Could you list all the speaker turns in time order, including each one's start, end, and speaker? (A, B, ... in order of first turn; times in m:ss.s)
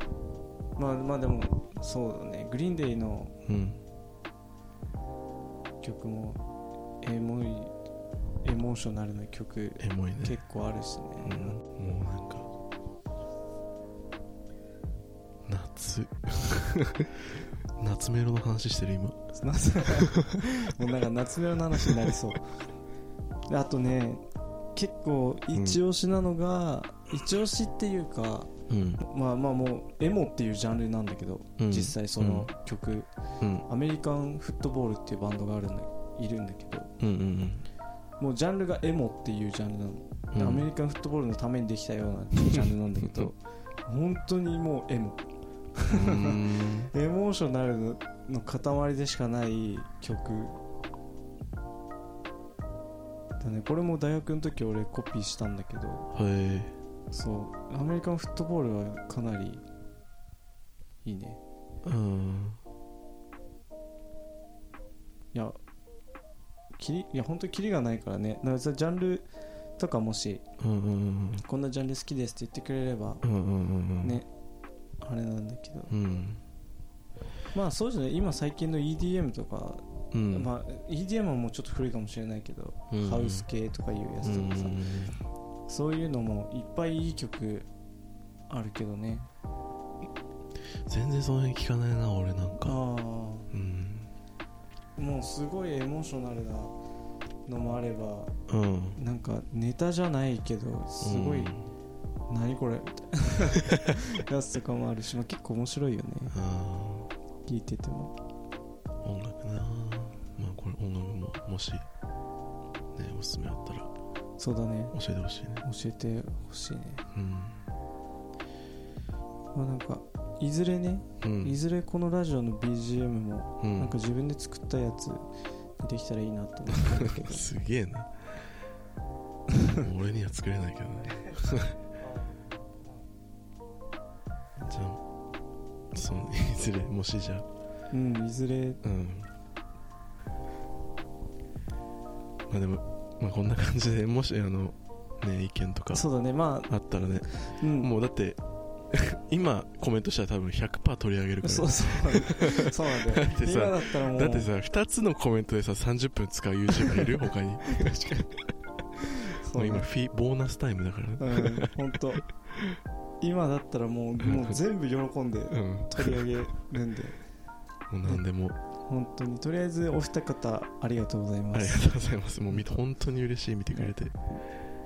0:00.8-0:03.3 A
0:03.4-0:03.8 B
0:05.8-0:06.4 A
0:07.0-0:07.7 A
0:08.4-0:11.6 A
0:09.8-0:10.4 B
0:11.2-0:12.5 B
0:15.4-0:19.2 B
0:19.4-0:22.5 A
0:19.9-0:20.5 B
0:23.5-0:24.2 A
0:24.7-0:33.1 A
0:25.5-0:25.8 B
0:28.7-0:29.0 B
0:31.6-0:32.5 B
0:33.4-0:33.6 B
0:33.7-0:36.9 A
0:37.0-0:37.7 B
0:38.2-0:45.2 A
0:40.3-0:40.7 B
0:42.4-0:43.3 B
0:45.8-0:50.6 A
0:45.8-0:46.9 B
0:53.4-0:56.1 A
0:56.1-0:56.7 B
0:57.1-0:59.6 A
1:01.0-1:01.4 A
1:01.8-1:02.6 B
1:05.3-1:05.6 A
1:06.8-1:10.4 A
1:10.6-1:11.4 B
1:11.4-1:13.2 A
1:13.2-1:14.2 B
1:14.0-1:14.3 A
1:15.0-1:15.9 A
1:15.9-1:16.4 B
1:17.5-1:24.9 A
1:20.1-1:20.5 B
1:22.9-1:23.5 B
1:24.2-1:25.1 B
1:25.7-1:27.7 A
1:28.5-1:29.3 A
1:30.9-1:32.8 B
1:32.6-1:33.5 A
1:33.5-1:34.1 B
1:35.0-1:36.7 A
1:37.5-1:38.3 A
1:38.5-1:39.0 B
1:39.0-1:41.6 A
1:41.0-1:41.7 B
1:42.3-1:46.4 A
1:46.3-1:47.1 B
1:47.5-1:48.1 A
1:49.0-1:51.8 B
1:52.9-1:53.9 B
1:54.4-1:54.9 A
1:54.9-1:55.6 B
1:55.6-1:57.0 A
1:57.1-1:57.7 B
1:59.5-2:07.5 A
2:01.2-2:01.6 B
2:03.6-2:04.0 B
2:06.7-2:08.5 B
2:09.7-2:11.8 B
2:14.6-2:15.0 B
2:15.9-2:17.5 B
2:17.9-2:18.8 A
2:18.8-2:19.3 B
2:22.5-2:26.0 B
2:25.9-2:26.7 A
2:26.7-2:38.0 B
2:27.4-2:27.9 A
2:31.4-2:34.5 A
2:36.8-2:38.3 A
2:39.0-2:39.9 A
2:39.5-2:42.0 B
2:41.2-2:42.2 A
2:42.5-2:42.8 B
2:43.2-2:47.2 A
2:44.2-2:44.6 B
2:45.5-2:46.4 B
2:47.9-2:48.6 B
2:48.8-2:51.9 A
2:51.5-2:54.2 B